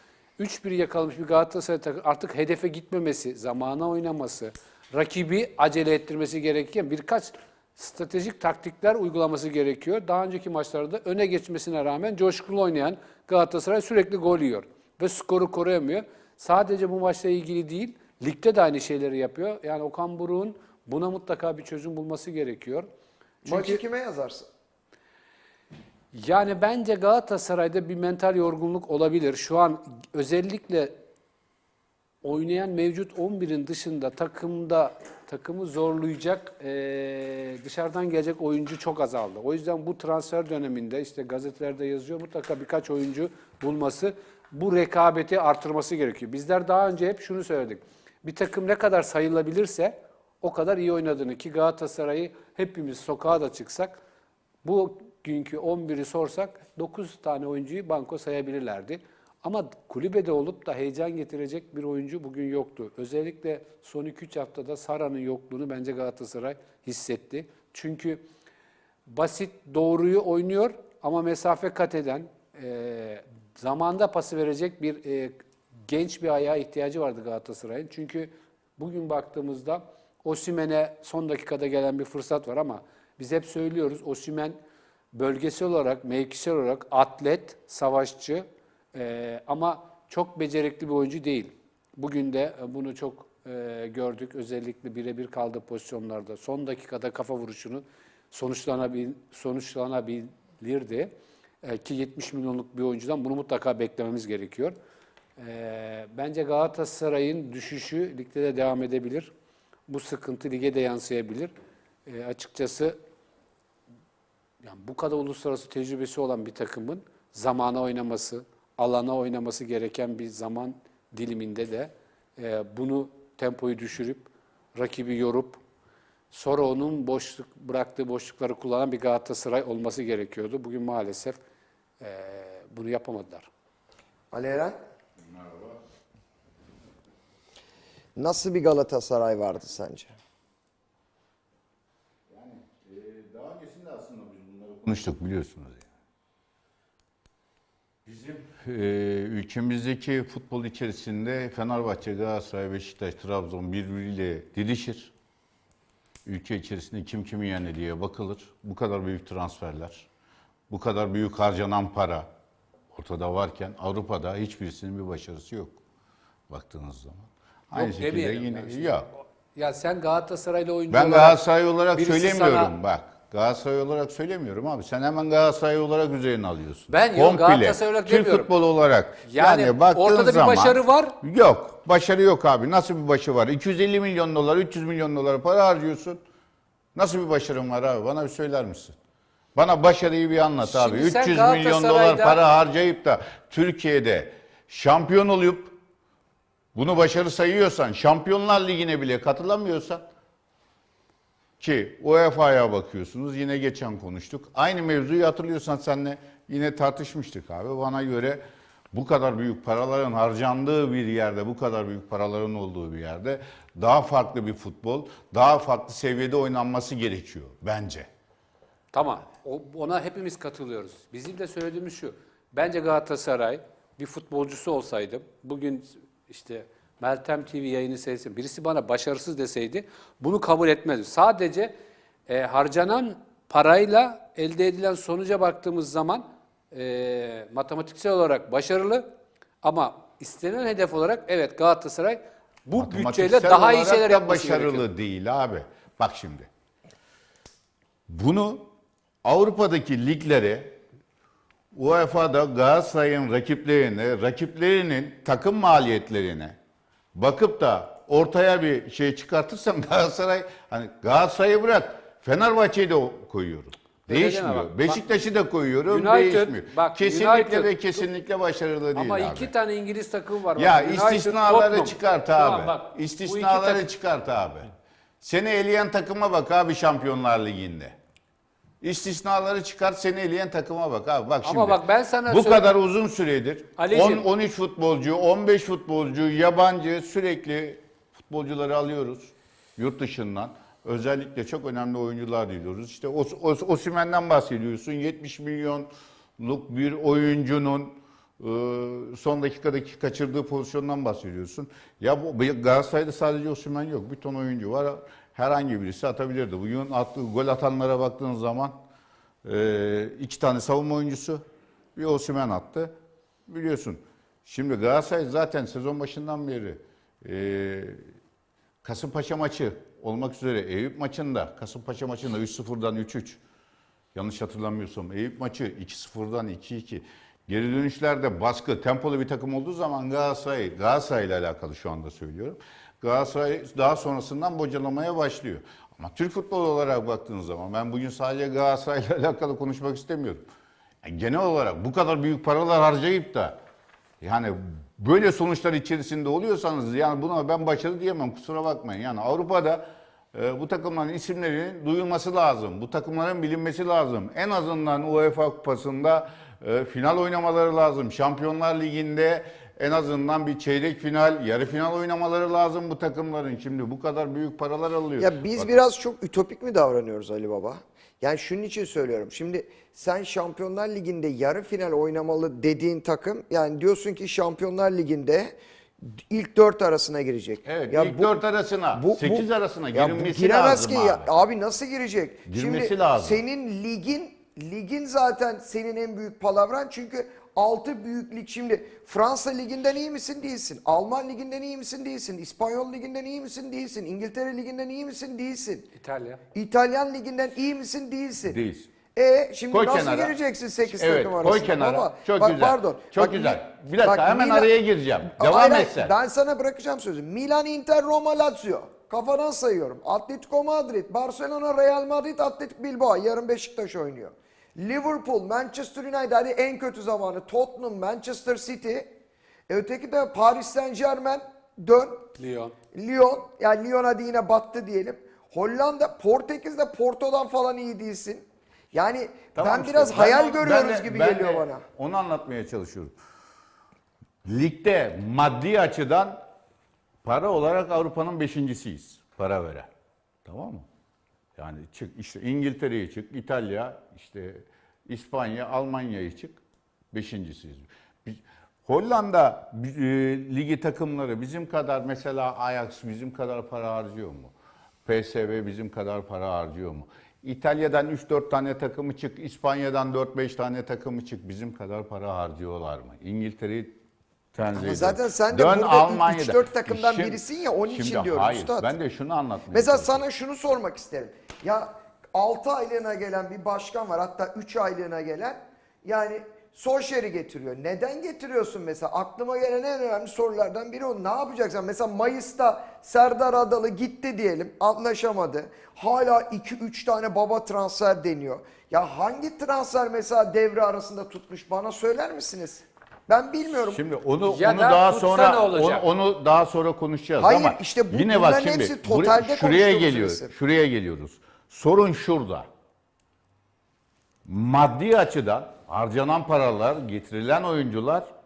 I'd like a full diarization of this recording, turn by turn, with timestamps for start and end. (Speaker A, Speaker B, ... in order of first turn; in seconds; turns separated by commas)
Speaker A: 0.4-22.9, Speaker A: 23.4-23.8, Speaker B: 23.4-24.5, Speaker A: 26.1-30.9, Speaker A: 32.2-53.9, Speaker A: 54.6-68.2, Speaker A: 69.1-75.3, Speaker A: 75.9-84.6, Speaker A: 85.1-101.1, Speaker A: 101.6-104.7, Speaker A: 105.4-109.3, Speaker A: 109.9-111.5, Speaker A: 112.0-113.0, Speaker A: 114.6-125.6, Speaker A: 126.3-131.4, Speaker A: 132.0-133.5, Speaker B: 134.3-134.8, Speaker C: 135.2-135.8, Speaker B: 138.2-140.2, Speaker C: 142.3-145.9, Speaker C: 148.0-155.1, Speaker C: 156.2-160.1, Speaker C: 160.7-162.3, Speaker C: 162.9-165.8, Speaker C: 166.5-169.1, Speaker A: 167.7-171.4, Speaker C: 170.9-186.2, Speaker A: 171.9-172.7, Speaker A: 176.9-178.5, Speaker A: 179.2-181.1, Speaker C: 186.9-189.0, Speaker C: 189.5-195.8, Speaker A: 190.6-192.4, Speaker C: 196.7-200.0, Speaker C: 201.6-218.1, Speaker A: 218.9-231.7, Speaker A: 232.3-239.1, Speaker A: 239.6-244.8, Speaker C: 242.8-246.5, Speaker C: 248.1-248.7, Speaker C: 249.2-250.8, Speaker C: 251.7-256.6, Speaker C: 257.1-269.5, Speaker A: 264.1-265.0, Speaker A: 265.9-268.1, Speaker A: 268.9-273.9, Speaker C: 270.6-274.7, Speaker C: 275.2-277.9, Speaker C: 278.8-308.7, Speaker A: 281.4-282.7, Speaker A: 283.8-284.2, Speaker C: 309.4-311.4, Speaker C: 311.9-312.9, Speaker C: 313.5-318.0, Speaker C: 318.8-323.4, Speaker C: 324.1-340.4, Speaker C: 341.0-343.6, Speaker C: 344.2-365.8, Speaker B: 365.2-378.4, Speaker C: 377.6-381.3, Speaker B: 378.9-395.9, Speaker C: 382.5-383.4, Speaker A: 396.0-396.4, Speaker B: 396.5-398.6, Speaker C: 398.4-398.9, Speaker B: 399.1-404.7, Speaker C: 399.7-400.4, Speaker C: 400.9-406.1, Speaker B: 405.3-419.1, Speaker B: 419.7-422.3, Speaker A: 422.4-422.7, Speaker B: 422.9-431.8, Speaker C: 429.5-433.1, Speaker C: 434.4-436.4, Speaker C: 437.2-439.9, Speaker C: 440.4-440.9, Speaker C: 441.6-446.6, Speaker C: 447.1-454.5, Speaker C: 455.0-464.0, Speaker C: 464.5-470.2, Speaker B: 464.7-468.9, Speaker B: 469.7-494.0, Speaker C: 493.9-502.7, Speaker A: 494.4-496.0, Speaker B: 497.4-500.5, Speaker C: 504.4-508.3